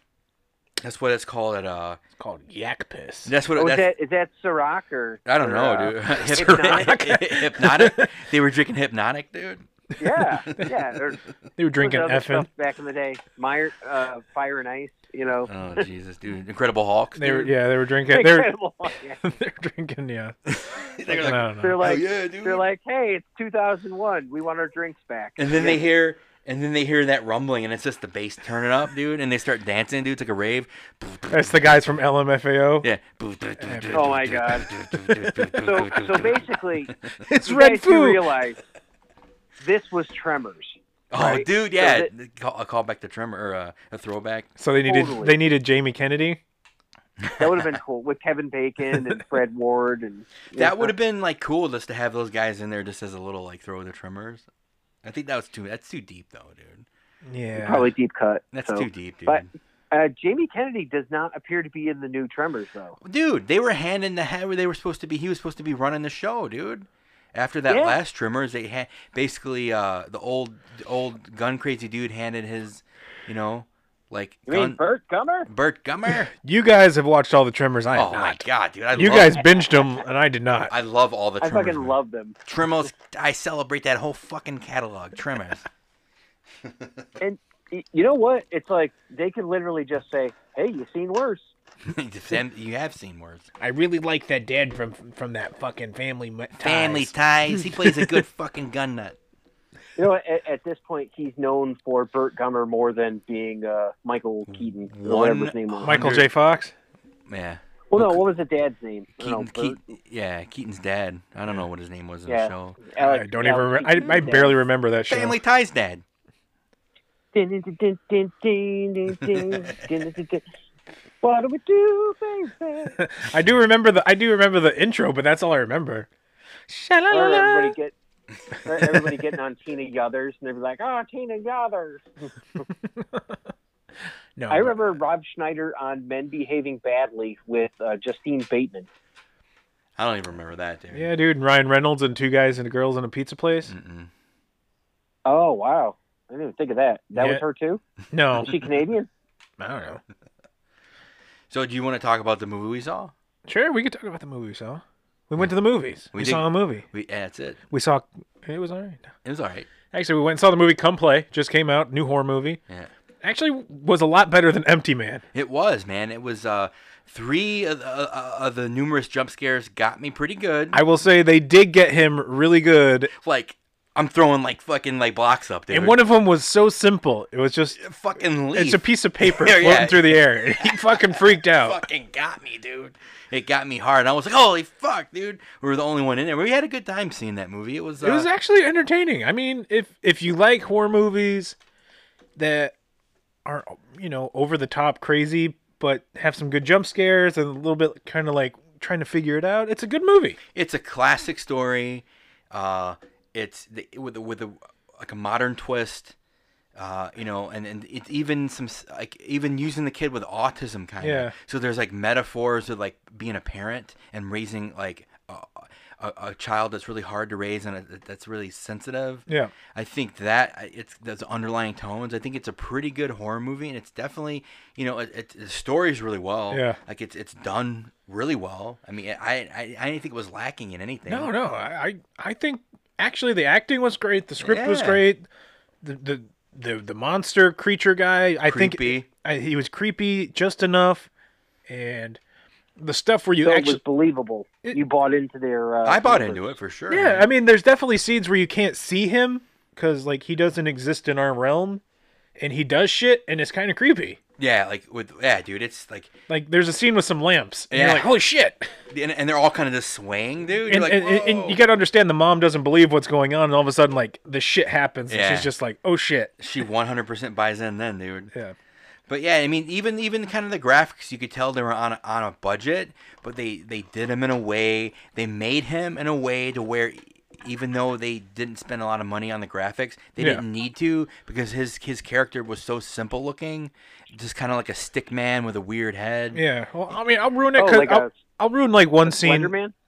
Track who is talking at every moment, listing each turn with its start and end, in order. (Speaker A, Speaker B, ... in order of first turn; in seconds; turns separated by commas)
Speaker A: 0.8-2.0, Speaker B: 2.2-3.3, Speaker A: 3.3-3.9, Speaker C: 3.6-7.0, Speaker A: 5.3-9.7, Speaker B: 6.2-8.2, Speaker C: 10.0-11.2, Speaker B: 11.6-12.5, Speaker C: 11.8-15.8, Speaker A: 15.5-17.6, Speaker B: 17.2-18.5, Speaker C: 18.1-19.3, Speaker B: 19.2-20.4, Speaker A: 20.5-22.6, Speaker B: 21.1-21.8, Speaker C: 21.2-25.8, Speaker A: 25.4-31.5, Speaker B: 31.3-32.9, Speaker A: 32.8-36.9, Speaker B: 33.6-34.1, Speaker C: 33.9-34.7, Speaker C: 35.5-38.6, Speaker B: 37.2-38.2, Speaker C: 39.6-42.1, Speaker A: 41.1-44.5, Speaker B: 44.6-46.4, Speaker C: 44.9-45.4, Speaker A: 47.2-47.7, Speaker C: 47.4-50.9, Speaker A: 50.6-54.5, Speaker A: 55.0-56.9, Speaker B: 57.2-57.9, Speaker C: 57.6-63.0, Speaker A: 58.5-59.5, Speaker A: 63.0-74.8, Speaker C: 67.7-68.0, Speaker C: 74.5-75.5, Speaker A: 75.5-76.3, Speaker B: 76.3-80.7, Speaker A: 77.9-79.5, Speaker A: 80.7-85.7, Speaker C: 81.4-82.4, Speaker A: 86.6-87.1, Speaker C: 87.2-91.5, Speaker A: 91.8-93.5, Speaker B: 93.6-98.1, Speaker A: 96.6-99.2, Speaker C: 100.0-106.2, Speaker A: 104.5-106.3, Speaker B: 105.8-106.7, Speaker A: 107.3-108.3, Speaker C: 107.9-109.8, Speaker A: 109.2-112.8, Speaker C: 112.3-114.6, Speaker B: 113.0-115.4, Speaker A: 115.1-116.0, Speaker C: 117.3-120.5, Speaker C: 121.2-123.0, Speaker B: 123.0-126.1, Speaker B: 126.7-127.8, Speaker C: 127.1-127.9, Speaker C: 128.6-132.3, Speaker B: 132.9-133.2, Speaker B: 134.4-134.8, Speaker C: 134.5-138.9, Speaker A: 140.0-141.1, Speaker B: 140.9-143.7, Speaker A: 143.7-144.1, Speaker C: 145.3-147.8, Speaker B: 147.2-147.4, Speaker B: 148.1-148.6, Speaker C: 148.4-149.1, Speaker B: 149.6-150.0, Speaker A: 151.5-153.1, Speaker B: 153.5-156.9, Speaker A: 156.1-157.6, Speaker B: 157.7-159.1, Speaker A: 159.2-159.7, Speaker B: 159.9-162.6, Speaker B: 163.2-165.2, Speaker A: 165.3-170.8, Speaker B: 170.7-173.1, Speaker A: 173.2-176.0, Speaker B: 175.7-177.8, Speaker A: 177.8-188.3, Speaker B: 178.5-181.8, Speaker B: 188.0-191.6, Speaker B: 192.4-192.7, Speaker B: 193.4-200.4, Speaker A: 200.6-206.2, Speaker A: 206.8-231.3, Speaker B: 211.0-211.3, Speaker B: 219.3-219.5, Speaker B: 226.5-226.8, Speaker B: 231.1-235.2, Speaker A: 234.4-235.0, Speaker B: 235.8-241.1, Speaker A: 238.4-239.1, Speaker B: 241.7-242.2, Speaker B: 242.8-243.8, Speaker C: 243.4-246.5, Speaker A: 245.8-247.3, Speaker B: 246.9-251.8, Speaker B: 252.4-254.2, Speaker A: 254.4-256.1, Speaker B: 256.3-258.7, Speaker A: 257.7-258.1, Speaker A: 258.9-261.6, Speaker B: 260.6-266.3, Speaker A: 265.1-265.5, Speaker A: 266.4-268.3, Speaker A: 269.1-286.4, Speaker B: 280.2-280.4, Speaker B: 286.3-289.5, Speaker C: 287.6-288.1, Speaker C: 289.1-289.7